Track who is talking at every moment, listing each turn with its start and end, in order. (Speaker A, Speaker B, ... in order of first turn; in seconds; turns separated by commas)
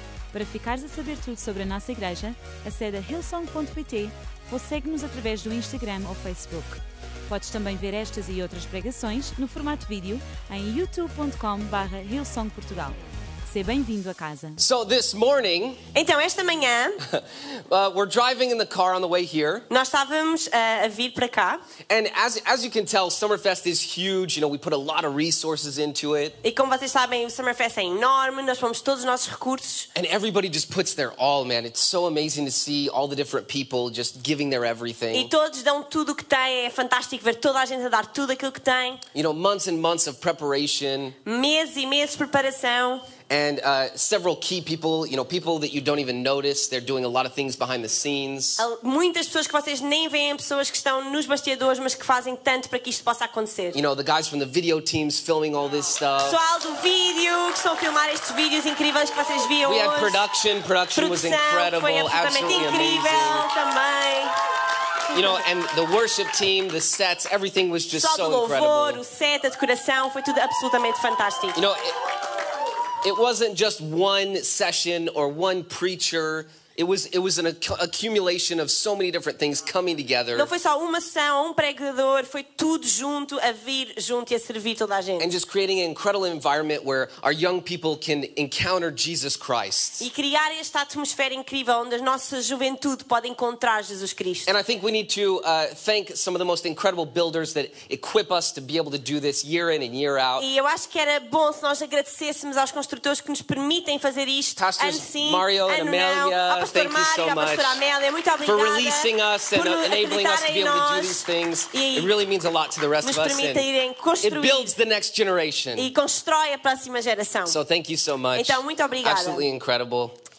Speaker A: 0.3-14.6, Speaker B: 14.6-15.8, Speaker C: 15.9-17.0, Speaker B: 17.0-19.7, Speaker C: 19.7-21.6, Speaker B: 21.9-26.4, Speaker C: 26.4-29.9, Speaker B: 29.9-35.3, Speaker C: 35.1-39.0, Speaker B: 39.1-41.2, Speaker C: 41.2-43.1, Speaker B: 43.3-48.6, Speaker C: 48.6-53.8, Speaker B: 53.7-56.4, Speaker C: 56.2-60.2, Speaker B: 59.6-63.5, Speaker C: 61.0-64.4, Speaker B: 65.1-69.0, Speaker C: 68.0-71.6, Speaker B: 71.5-72.0, Speaker B: 73.0-80.5, Speaker C: 80.3-85.3, Speaker B: 85.2-90.0, Speaker C: 90.0-94.5, Speaker B: 94.5-100.4, Speaker C: 100.4-112.1, Speaker B: 104.6-107.8, Speaker B: 108.5-113.7, Speaker C: 113.0-114.7, Speaker B: 114.2-115.9, Speaker C: 115.8-117.6, Speaker B: 117.5-120.2, Speaker C: 118.3-119.5